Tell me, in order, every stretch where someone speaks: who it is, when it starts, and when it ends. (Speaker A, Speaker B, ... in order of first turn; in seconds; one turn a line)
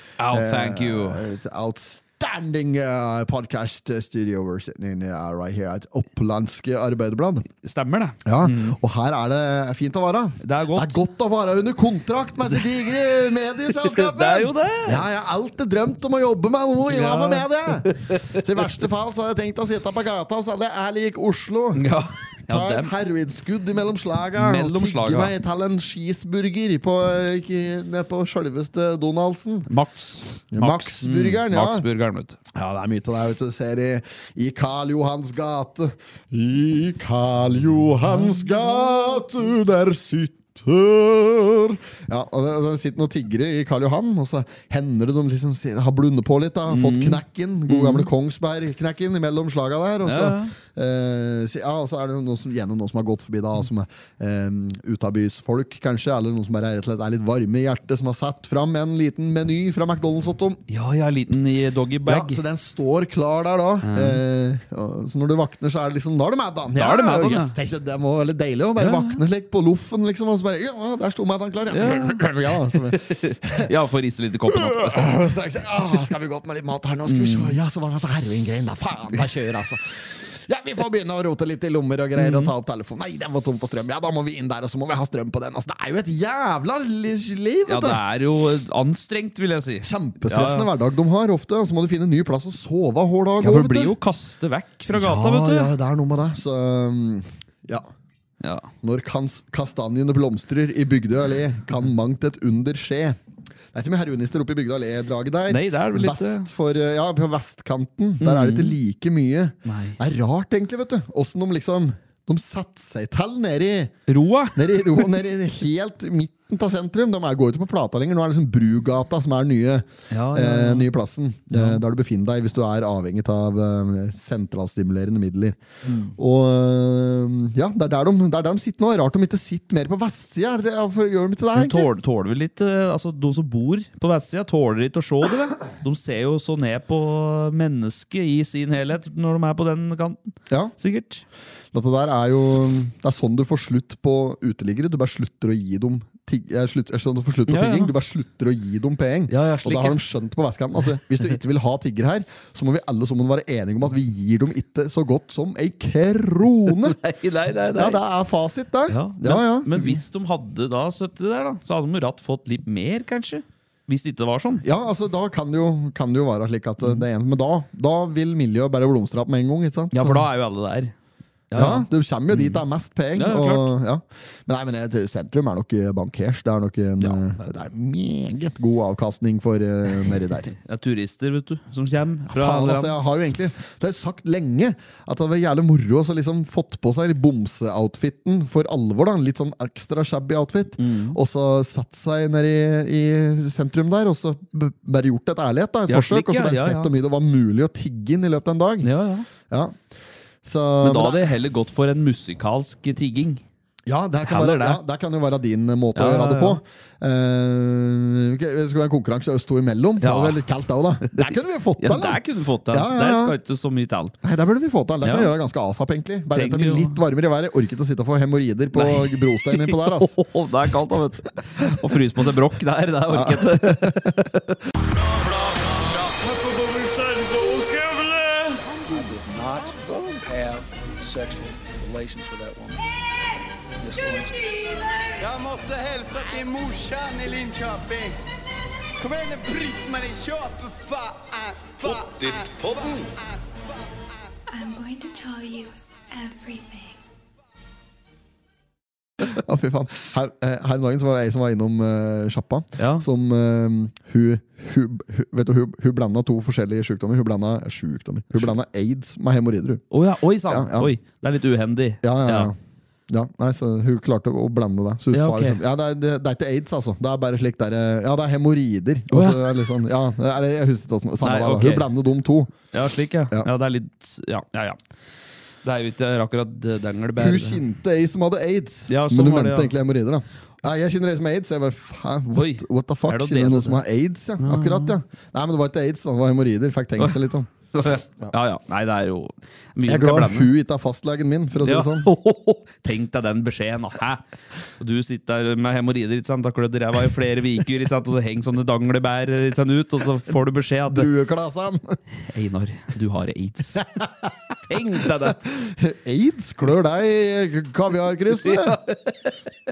Speaker A: 0.2-1.3
Speaker B: 0.3-7.5
Speaker A: 7.5-8.8
Speaker B: 8.2-21.9
Speaker A: 10.4-11.0
Speaker A: 12.5-15.0
Speaker A: 16.9-18.7
Speaker A: 21.8-22.9
Speaker B: 22.5-29.7
Speaker A: 24.4-25.3
Speaker A: 29.7-32.4
Speaker B: 30.5-31.9
Speaker B: 32.5-60.6
Speaker A: 46.7-48.1
Speaker A: 50.0-50.5
Speaker A: 60.7-62.4
Speaker B: 62.1-73.7
Speaker A: 63.8-64.2
Speaker A: 66.8-67.5
Speaker A: 68.8-69.2
Speaker A: 71.7-75.1
Speaker B: 74.5-88.0
Speaker A: 77.1-77.6
Speaker A: 82.2-82.5
Speaker A: 87.7-90.7
Speaker B: 89.8-93.9
Speaker A: 93.4-95.7
Speaker B: 94.9-97.9
Speaker A: 98.4-98.7
Speaker B: 98.8-103.2
Speaker B: 103.7-114.0
Speaker A: 105.5-106.5
Speaker A: 108.2-108.8
Speaker A: 109.7-110.0
Speaker A: 114.1-114.6
Speaker B: 114.5-125.6
Speaker A: 120.1-120.9
Speaker A: 121.5-121.8
Speaker A: 125.9-126.1
Speaker B: 126.2-131.9
Speaker A: 131.6-141.2
Speaker B: 141.7-157.0
Speaker A: 147.5-147.9
Speaker A: 149.3-150.0
Speaker A: 156.7-158.0
Speaker B: 157.8-160.0
Speaker A: 158.9-164.6
Speaker B: 164.6-170.2
Speaker A: 169.9-170.9
Speaker A: 171.5-172.6
Speaker B: 171.5-180.5
Speaker A: 173.2-173.7
Speaker A: 177.0-177.3
Speaker A: 180.0-182.9
Speaker B: 182.3-198.9
Speaker A: 190.8-191.2
Speaker A: 195.9-196.9
Speaker A: 198.8-199.3
Speaker B: 199.5-199.8
Speaker B: 200.4-201.3
Speaker A: 200.8-203.4
Speaker B: 203.9-213.4
Speaker A: 204.2-204.8
Speaker A: 206.0-206.6
Speaker A: 210.0-210.5
Speaker A: 211.0-214.2
Speaker B: 214.2-220.2
Speaker A: 215.0-215.3
Speaker A: 216.3-217.0
Speaker A: 218.7-224.7
Speaker B: 223.1-224.2
Speaker C: 224.8-232.9
Speaker B: 229.6-230.3
Speaker C: 233.8-235.2
Speaker D: 235.2-238.2
Speaker D: 239.0-244.0
Speaker E: 244.5-247.0
Speaker B: 249.2-259.8
Speaker A: 252.8-253.1
Speaker A: 259.9-262.5
Speaker B: 260.5-260.9
Speaker B: 262.0-262.6
Speaker B: 263.1-272.5
Speaker A: 265.1-265.6
Speaker A: 269.1-269.5
Speaker A: 271.2-271.9
Speaker A: 272.7-274.8
Speaker A: 275.6-277.6
Speaker B: 277.2-287.5
Speaker A: 278.9-279.7
Speaker A: 282.3-283.8
Speaker A: 284.4-285.0
Speaker A: 287.0-290.5
Speaker B: 289.9-292.1
Speaker A: 291.6-294.2
Speaker A: 294.8-301.1
Speaker B: 300.9-302.0
Speaker A: 302.2-303.9
Speaker B: 304.0-304.3
Speaker A: 304.7-305.4
Speaker B: 305.0-308.8
Speaker A: 308.3-309.5